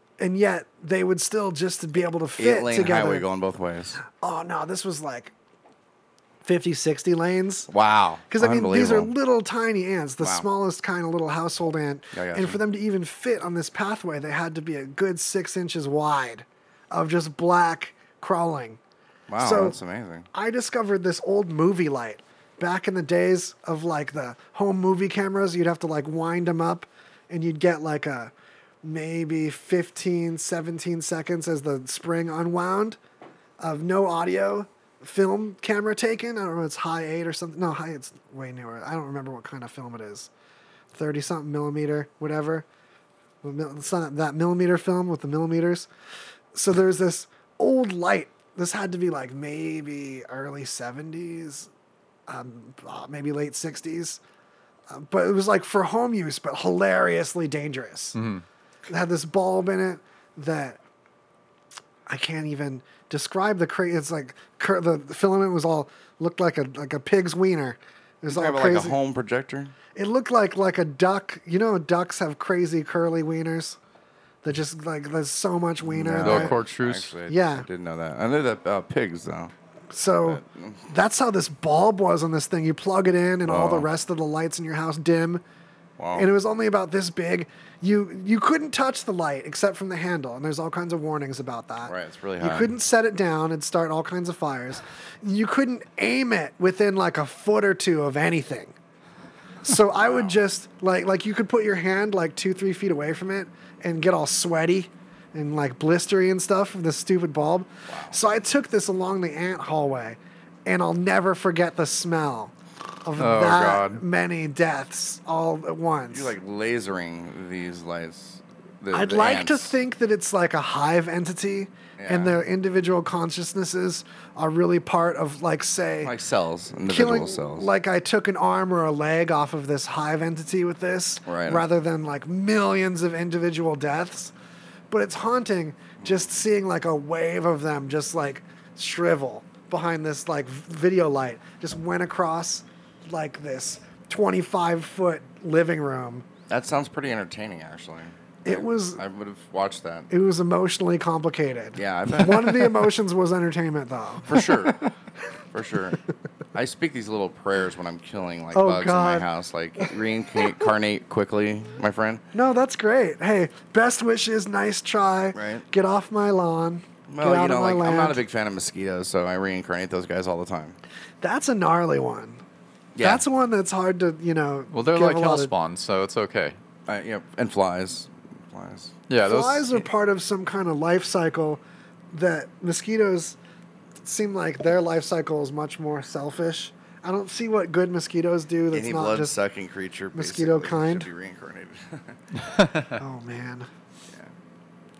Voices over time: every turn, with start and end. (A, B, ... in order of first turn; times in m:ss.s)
0:00.2-0:03.3 A
0:02.4-0:04.0 B
0:04.0-0:05.3 A
0:06.4-0:07.7 A
0:07.7-0:09.1 B
0:08.3-0:18.8 A
0:10.2-0:10.5 B
0:12.1-0:12.6 B
0:19.3-0:20.3 B
0:19.4-0:19.8 A
0:20.3-0:28.3 A
0:28.8-0:33.0 A
0:33.6-0:40.3 A
0:40.9-0:42.6 A
0:43.4-0:45.9 A
0:46.5-0:51.7 A
0:52.3-0:54.2 A
0:54.9-0:58.2 A
0:58.1-0:58.4 C
0:58.9-1:00.8 A
1:02.1-1:09.0 A
1:08.3-1:09.7 B
1:09.9-1:13.8 A
1:14.4-1:16.6 A
1:15.8-1:19.5 B
1:16.2-1:17.1 C
1:17.3-1:17.7 A
1:19.9-1:25.4 A
1:20.2-1:20.8 B
1:23.4-1:23.9 B
1:26.0-1:26.3 B
1:26.1-1:38.8 A
1:31.8-1:32.7 B
1:39.6-1:52.5 A
1:40.0-1:40.4 B
1:47.9-1:48.2 B
1:53.0-1:56.3 A
1:53.2-1:54.0 C
1:56.1-1:59.8 B
1:58.9-2:06.1 A
2:02.0-2:02.3 B
2:06.0-2:07.7 B
2:06.8-2:14.3 A
2:11.2-2:11.6 B
2:14.9-2:26.2 A
2:26.5-2:30.1 B
2:28.4-2:29.0 A
2:30.1-2:34.7 A
2:31.8-2:32.8 B
2:34.3-2:34.9 B
2:35.5-2:36.0 B
2:36.5-2:42.2 B
2:38.5-2:39.2 A
2:42.3-2:48.2 A
2:45.3-2:45.6 B
2:47.1-2:50.8 B
2:51.2-2:52.4 A
2:52.9-2:53.2 B
2:53.0-2:55.5 A
2:54.7-2:56.6 C
2:56.9-2:59.0 B
2:59.1-2:59.7 C
2:59.2-3:03.4 A
3:04.0-3:09.3 A
3:08.7-3:12.2 B
3:10.1-3:11.1 A
3:12.4-3:13.0 C
3:13.0-3:13.7 A